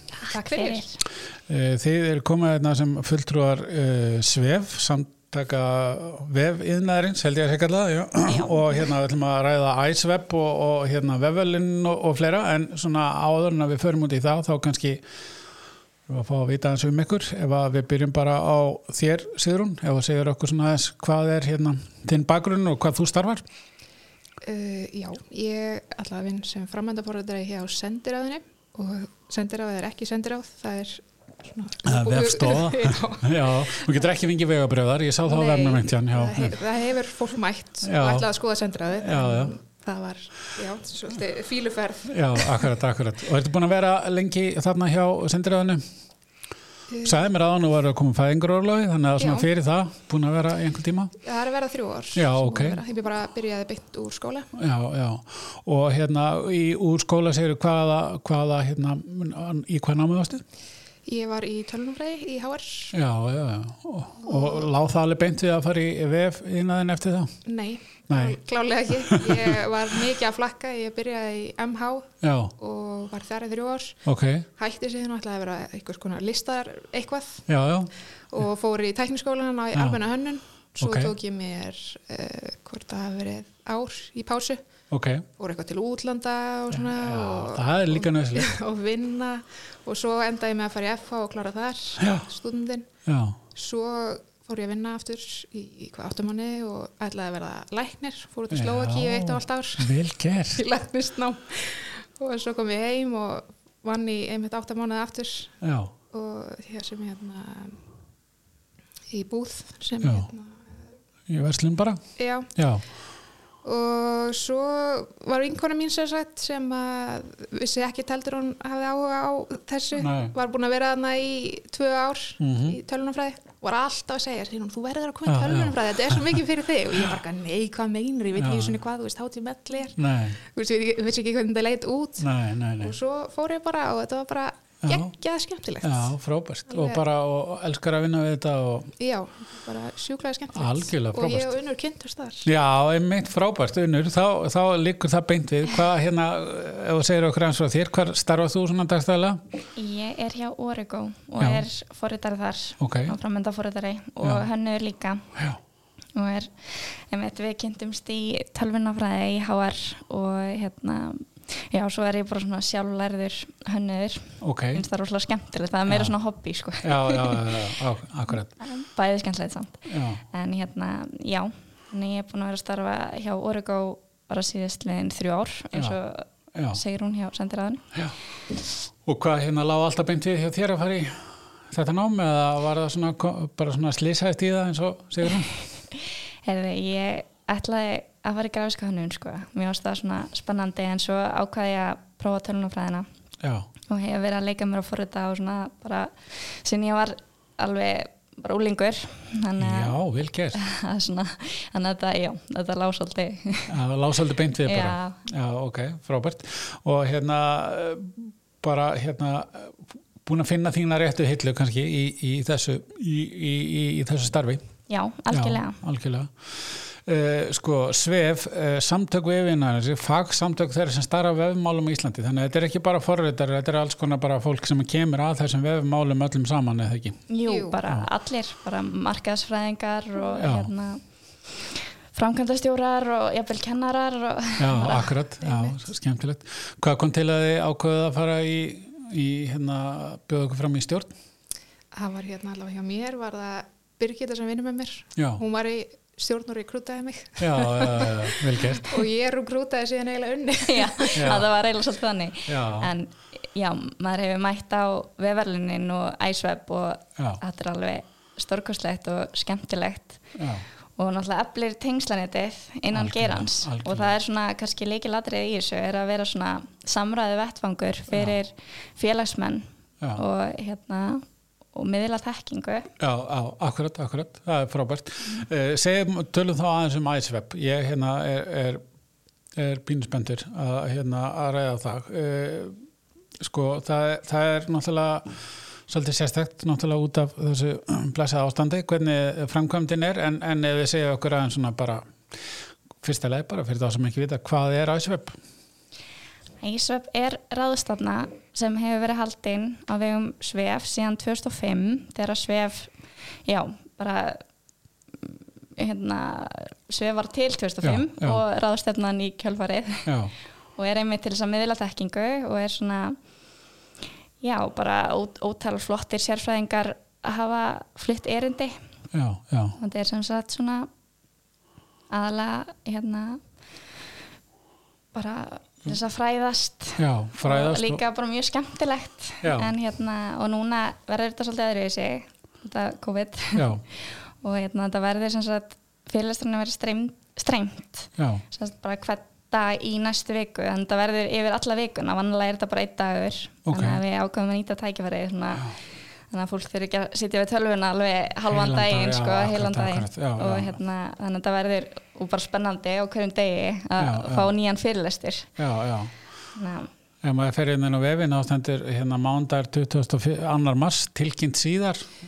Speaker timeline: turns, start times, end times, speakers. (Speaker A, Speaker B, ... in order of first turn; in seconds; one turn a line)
Speaker A: 0.2-0.8
Speaker B: 0.3-1.0
Speaker C: 1.5-15.0
Speaker A: 8.2-8.8
Speaker C: 16.1-23.4
Speaker B: 24.4-33.3
Speaker C: 31.8-36.5
Speaker B: 35.2-42.7
Speaker C: 37.8-38.3
Speaker C: 38.9-39.5
Speaker C: 42.0-45.8
Speaker B: 46.9-47.2
Speaker C: 47.0-51.1
Speaker B: 49.2-49.5
Speaker B: 51.2-54.5
Speaker C: 52.1-52.8
Speaker C: 54.5-60.4
Speaker B: 61.0-62.9
Speaker C: 62.9-67.4
Speaker B: 67.4-74.0
Speaker C: 68.1-68.4
Speaker C: 69.0-69.6
Speaker C: 72.2-72.5
Speaker C: 74.0-74.5
Speaker B: 74.6-77.4
Speaker C: 77.5-77.9
Speaker B: 78.3-84.6
Speaker C: 79.7-80.0
Speaker C: 80.8-81.1
Speaker C: 84.9-85.2
Speaker B: 85.4-92.9
Speaker C: 86.7-88.5
Speaker C: 92.0-92.3
Speaker C: 93.0-93.4
Speaker B: 93.5-100.0
Speaker C: 98.5-100.6
Speaker B: 100.5-105.5
Speaker C: 105.6-105.9
Speaker B: 106.1-107.8
Speaker B: 109.1-110.6
Speaker C: 110.0-110.3
Speaker C: 111.3-112.0
Speaker B: 112.2-112.5
Speaker C: 112.5-112.8
Speaker B: 113.6-132.3
Speaker C: 120.0-120.3
Speaker C: 122.4-122.8
Speaker C: 125.2-126.1
Speaker C: 128.3-128.7
Speaker C: 129.9-130.4
Speaker C: 132.2-132.9
Speaker B: 132.8-136.1
Speaker C: 134.8-135.1
Speaker C: 135.8-138.9
Speaker B: 136.7-137.0
Speaker B: 139.0-142.5
Speaker C: 140.5-141.5
Speaker C: 142.4-149.4
Speaker A: 149.8-155.2
Speaker C: 151.4-151.7
Speaker C: 152.8-153.2
Speaker C: 155.3-155.6
Speaker A: 156.2-167.7
Speaker C: 164.4-164.8
Speaker C: 165.9-166.1
Speaker C: 166.8-168.5
Speaker A: 168.3-177.9
Speaker C: 169.8-170.2
Speaker C: 175.7-176.0
Speaker C: 176.5-176.8
Speaker C: 179.0-185.5
Speaker A: 185.9-193.1
Speaker C: 193.4-193.7
Speaker A: 193.9-199.9
Speaker C: 199.6-200.6
Speaker A: 200.5-203.7
Speaker C: 203.7-214.6
Speaker A: 204.6-205.2
Speaker A: 214.9-215.8
Speaker C: 215.3-227.3
Speaker A: 227.3-231.0
Speaker B: 227.4-227.8
Speaker C: 230.3-230.7
Speaker A: 231.7-235.1
Speaker C: 234.6-241.1
Speaker B: 235.4-235.8
Speaker B: 241.9-251.3
Speaker C: 245.2-245.4
Speaker C: 247.4-249.0
Speaker A: 250.7-260.2
Speaker C: 251.1-251.5
Speaker C: 252.5-252.9
Speaker C: 260.4-260.6
Speaker A: 260.9-272.9
Speaker C: 262.9-264.1
Speaker C: 268.1-268.4
Speaker C: 273.0-278.8
Speaker C: 279.6-282.8
Speaker C: 283.4-292.0
Speaker C: 293.0-295.4
Speaker A: 296.6-302.9
Speaker A: 303.4-304.4
Speaker A: 305.2-310.1
Speaker C: 307.8-308.4
Speaker C: 310.1-310.3
Speaker A: 310.8-313.2
Speaker A: 314.4-318.8
Speaker C: 319.1-319.8
Speaker A: 319.8-320.9
Speaker A: 322.1-323.4
Speaker A: 325.1-345.8
Speaker C: 327.0-328.0
Speaker C: 329.4-329.7
Speaker C: 333.5-333.8
Speaker C: 338.2-338.4
Speaker C: 343.6-344.0
Speaker A: 346.3-355.5
Speaker C: 348.5-350.8
Speaker C: 354.0-354.5
Speaker C: 355.6-356.1
Speaker A: 356.5-356.9
Speaker C: 357.2-362.1